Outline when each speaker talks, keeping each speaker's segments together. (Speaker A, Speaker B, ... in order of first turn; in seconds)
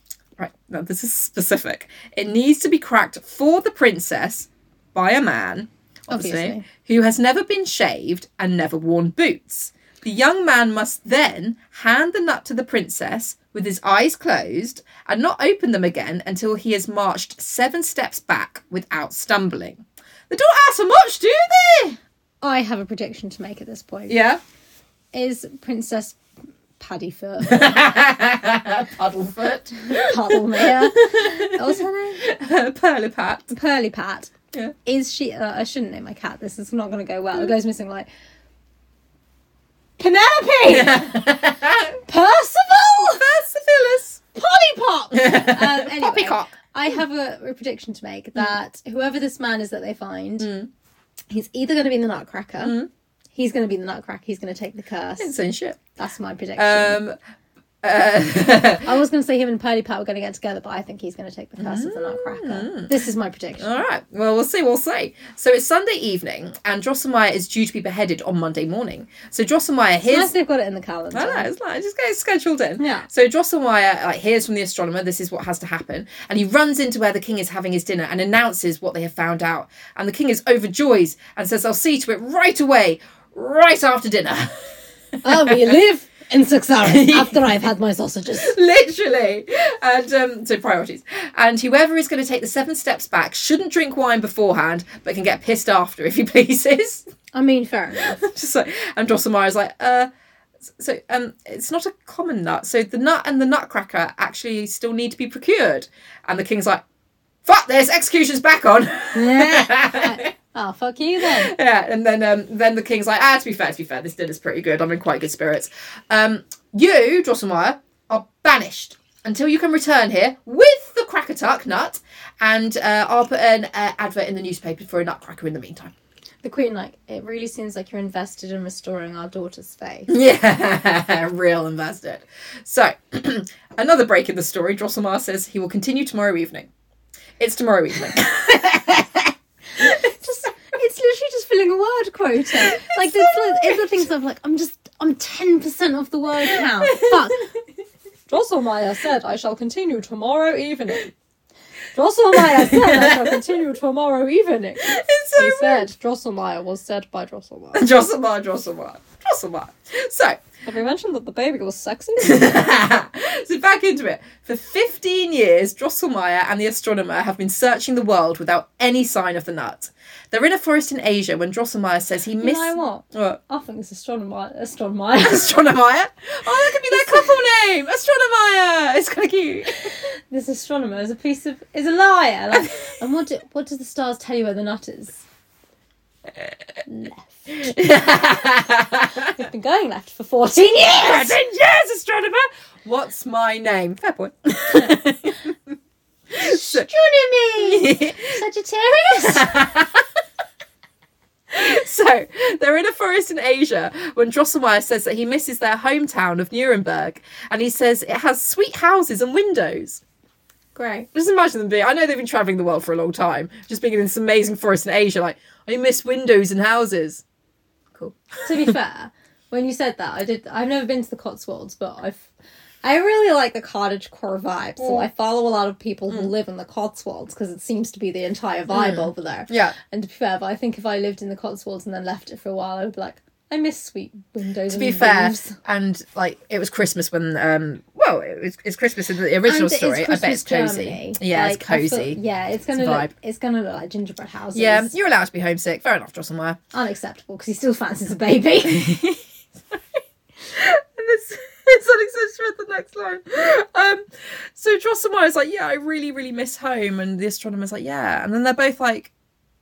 Speaker A: 0.4-22.0, 24.1-24.4, 27.4-33.5, 40.7-42.0, 43.1-44.2, 45.1-46.5, 50.4-50.7, 52.6-52.9, 55.2-55.8, 56.6-57.2, 57.8-58.9, 61.6-62.9, 63.6-70.3, 71.1-85.7, 86.8-87.5, 88.3-97.1, 98.1-100.1, 100.7-106.8, 107.5-110.3, 111.2-125.9, 130.1-136.7, 137.4-140.0, 142.5-143.9, 146.8-147.2, 152.4-153.4, 154.8-155.9, 157.7-160.4, 162.2-173.4, 175.2-179.9, 187.5-189.3, 190.9-195.6, 196.3-196.9, 197.6-198.4, 199.2-200.1, 201.5-210.0, 211.1-217.2, 218.0-218.7, 224.8-225.1, 228.7-229.8, 234.7-242.2, 242.8-243.1, 244.6-246.6, 250.5-259.1
Speaker B: 6.1-6.7, 22.4-24.2, 25.1-26.2, 26.8-27.8, 29.9-32.2, 33.5-34.3, 34.9-38.1, 40.0-41.4, 42.0-43.3, 44.3-50.5, 51.3-52.8, 53.4-55.4, 56.0-57.0, 58.8-63.8, 70.1-71.5, 72.8-73.1, 85.2-88.5, 97.3-98.2, 109.1-111.5, 126.4-130.1, 139.8-147.5, 148.3-151.1, 151.9-157.8, 160.7-162.7, 172.4-175.5, 176.9-177.3, 179.8-185.2, 186.9-187.7, 189.3-191.4, 196.3-199.7, 210.8-211.1, 218.4-222.3, 222.8-235.6, 239.4-244.9, 246.7-249.2